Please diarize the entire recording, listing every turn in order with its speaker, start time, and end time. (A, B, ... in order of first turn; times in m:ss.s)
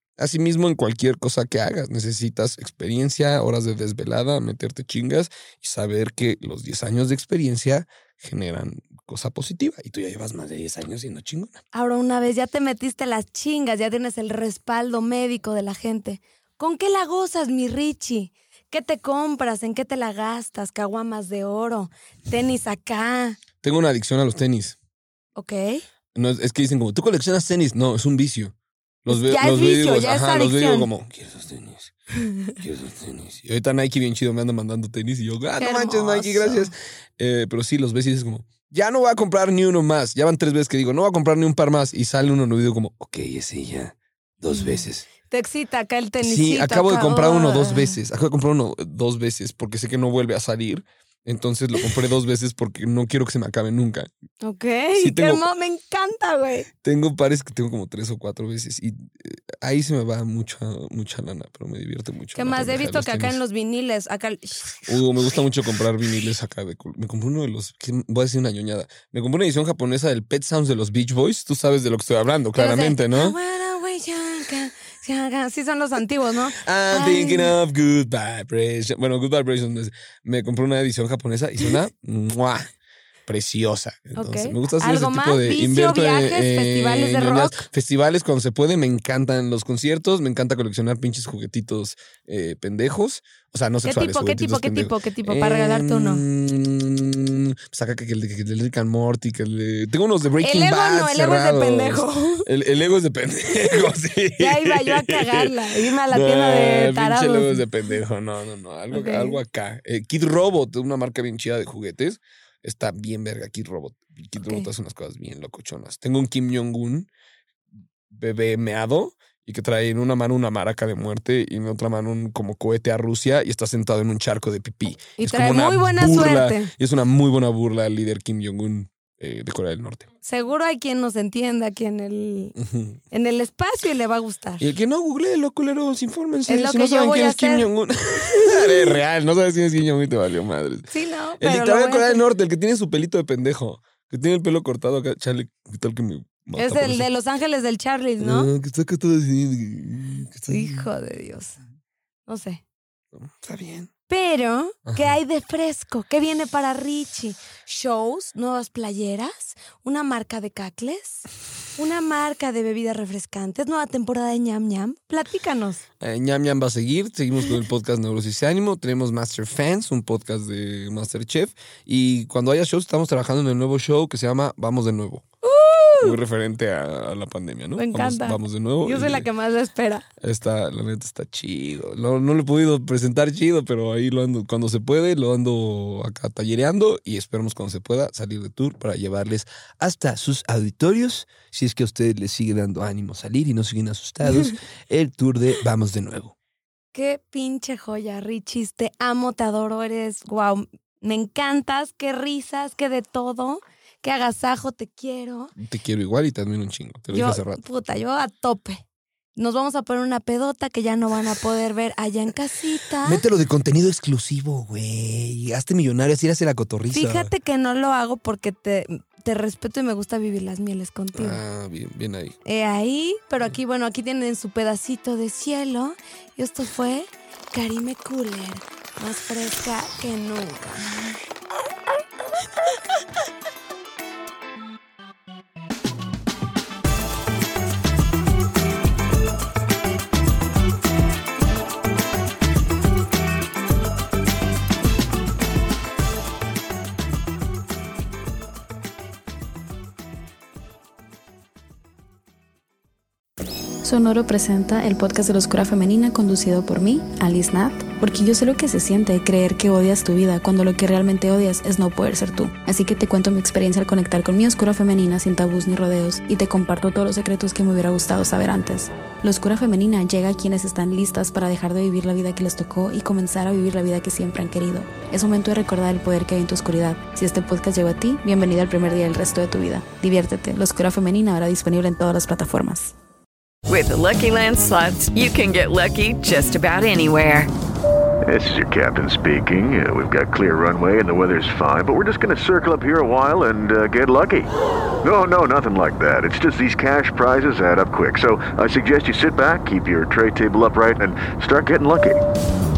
0:00.2-0:11.6 A
0:11.7-0:23.4 B
0:23.6-0:24.8 A
0:25.4-0:25.8 B
0:26.1-0:31.9 A
0:29.1-0:30.9 B
0:32.2-0:32.5 B
0:32.6-0:45.0 A
0:35.6-0:36.7 B
0:44.5-0:48.0 B
0:46.2-0:54.1 A
0:54.4-0:56.7 B
0:54.9-0:55.4 A
0:56.8-1:03.4 A
1:02.3-1:04.9 B
1:04.8-1:13.4 A
1:12.5-1:17.5 B
1:16.6-1:22.7 A
1:23.3-1:57.1 A
1:24.1-1:27.6 B
1:33.8-1:36.2 B
1:40.4-1:42.5 B
1:44.4-1:47.6 B
1:48.9-1:49.4 B
1:54.4-1:54.7 B
1:58.1-2:10.1 A
2:05.2-2:06.7 B
2:10.2-2:12.6 B
2:12.6-2:13.0 A
2:13.1-2:14.7 B
2:14.6-2:20.9 A
2:16.5-2:17.7 B
2:18.3-2:19.0 B
2:20.9-2:22.2 B
2:21.4-2:27.1 A
2:26.6-2:28.5 B
2:28.2-2:30.9 A
2:30.5-2:31.6 B
2:32.3-2:32.6 B
2:33.1-2:33.9 A
2:34.1-2:45.8 B
2:34.8-2:35.2 A
2:46.0-2:55.2 A
2:55.4-2:56.2 B
2:56.0-2:59.3 A
2:57.8-3:00.0 B
3:00.2-3:16.3 A
3:16.9-3:25.5 B
3:25.6-3:27.6 A
3:27.1-3:28.8 B
3:29.4-3:33.2 B
3:33.0-3:37.3 A
3:36.9-3:41.4 B
3:41.1-3:42.4 A
3:42.4-3:51.2 B
4:13.8-4:42.9 C
4:43.6-4:47.5 D
4:48.2-4:54.5 E
4:55.0-5:02.2 E